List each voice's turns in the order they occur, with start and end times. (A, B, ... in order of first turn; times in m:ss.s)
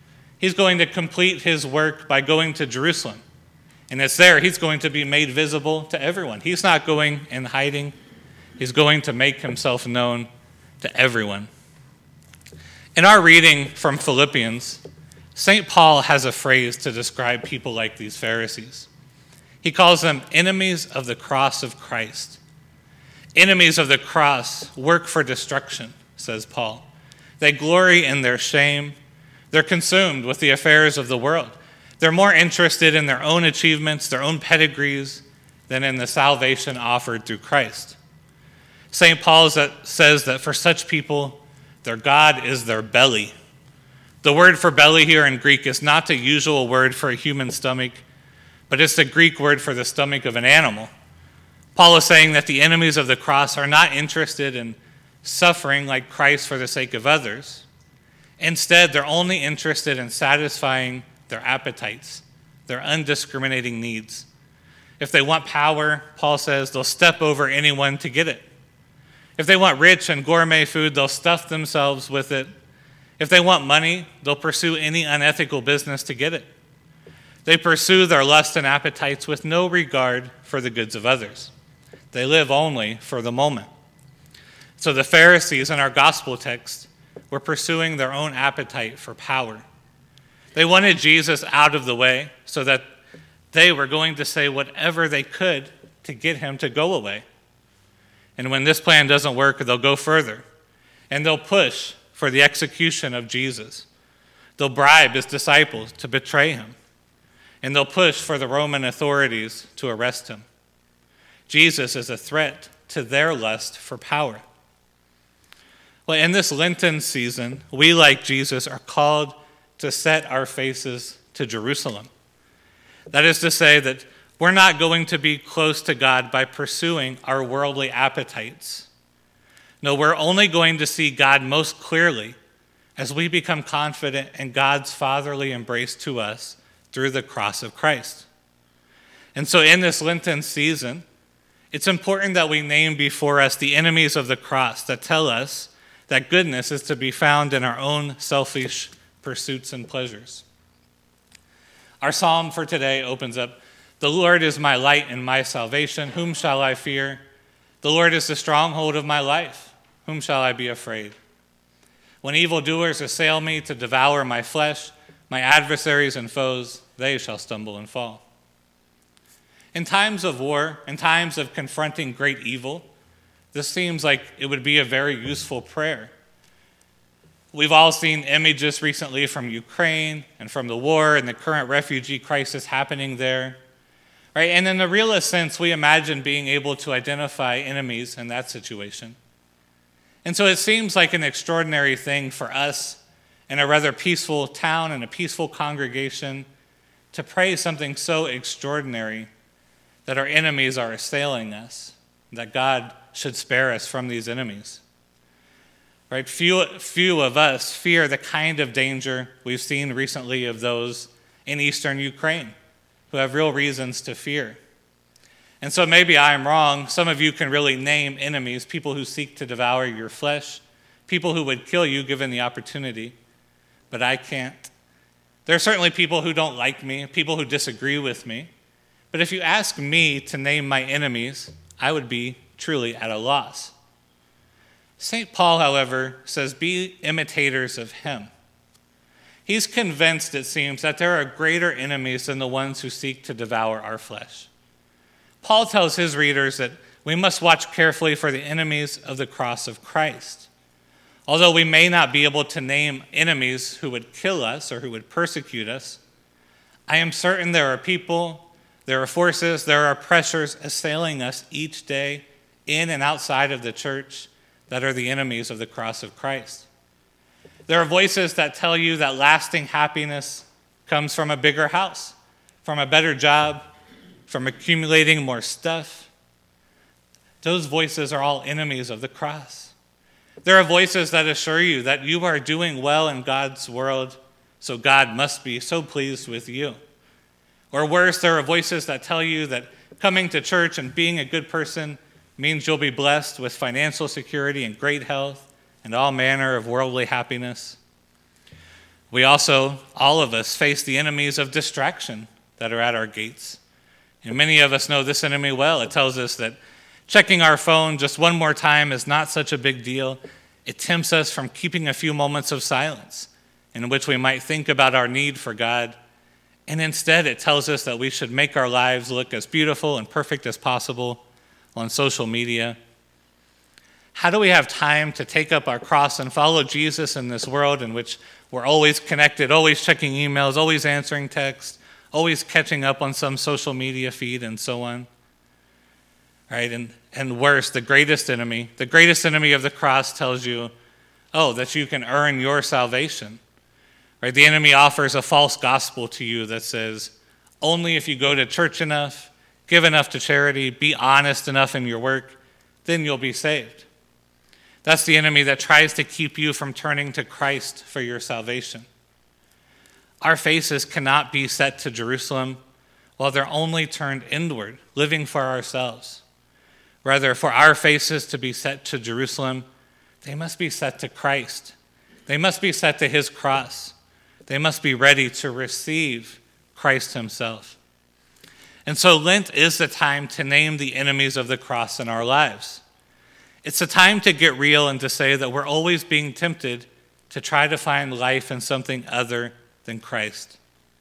0:00.4-0:03.2 A
0:03.9-0:08.0 A
0:08.6-0:10.3 A
0:10.8-0:11.5 A
0:13.0-0:14.8 A
0:15.3-0:18.9 A
0:19.6-0:22.4 A
0:23.3-0:26.9 A
0:27.4-0:29.0 A
0:29.5-0:38.0 A
0:38.9-0:43.3 A
0:44.2-0:48.0 A
0:48.7-0:50.9 A
0:51.8-0:57.6 A
0:58.4-1:04.3 A
1:05.0-1:08.5 A
1:09.4-1:12.5 A
1:13.2-1:16.5 A
1:17.4-1:21.5 A
1:22.1-1:23.7 A
1:24.8-1:29.6 A
1:30.5-1:32.9 A
1:33.5-1:37.2 A
1:38.4-1:40.4 A
1:41.1-1:43.9 A
1:44.6-1:46.8 A
1:47.6-1:50.4 A
1:51.5-1:54.4 A
1:56.1-2:02.1 A
2:03.1-2:08.9 A
2:09.8-2:12.4 A
2:13.0-2:18.3 A
2:19.3-2:21.0 A
2:21.7-2:30.4 A
2:32.0-2:37.2 A
2:37.8-2:41.2 A
2:42.2-2:48.2 A
2:49.7-2:52.9 A
2:53.5-2:56.1 A
2:57.5-3:03.6 A
3:04.3-3:09.2 A
3:10.2-3:16.5 A
3:17.1-3:19.3 A
3:20.0-3:24.8 A
3:26.1-3:32.5 A
3:33.1-3:34.6 A
3:35.6-3:43.2 A
3:43.9-3:44.7 A
3:45.4-3:48.5 A
3:49.1-3:53.7 A
3:55.0-3:58.3 A
3:59.4-4:04.5 A
4:05.4-4:10.5 A
4:11.3-4:16.0 A
4:16.9-4:26.7 A
4:27.7-4:33.6 A
4:34.3-4:36.1 A
4:37.4-4:39.7 A
4:40.4-4:46.8 A
4:47.7-4:57.8 A
4:59.1-5:03.6 A
5:04.2-5:16.0 A
5:16.7-5:21.2 A
5:21.7-5:22.8 A
5:24.1-5:35.1 A
5:36.5-5:40.7 A
5:41.3-5:43.4 A
5:44.2-5:53.9 A
5:54.8-5:58.9 A
6:00.2-6:02.6 A
6:03.2-6:06.2 A
6:07.0-6:09.7 A
6:10.2-6:11.7 A
6:12.3-6:13.9 A
6:14.5-6:17.8 A
6:18.8-6:22.8 A
6:23.6-6:30.6 A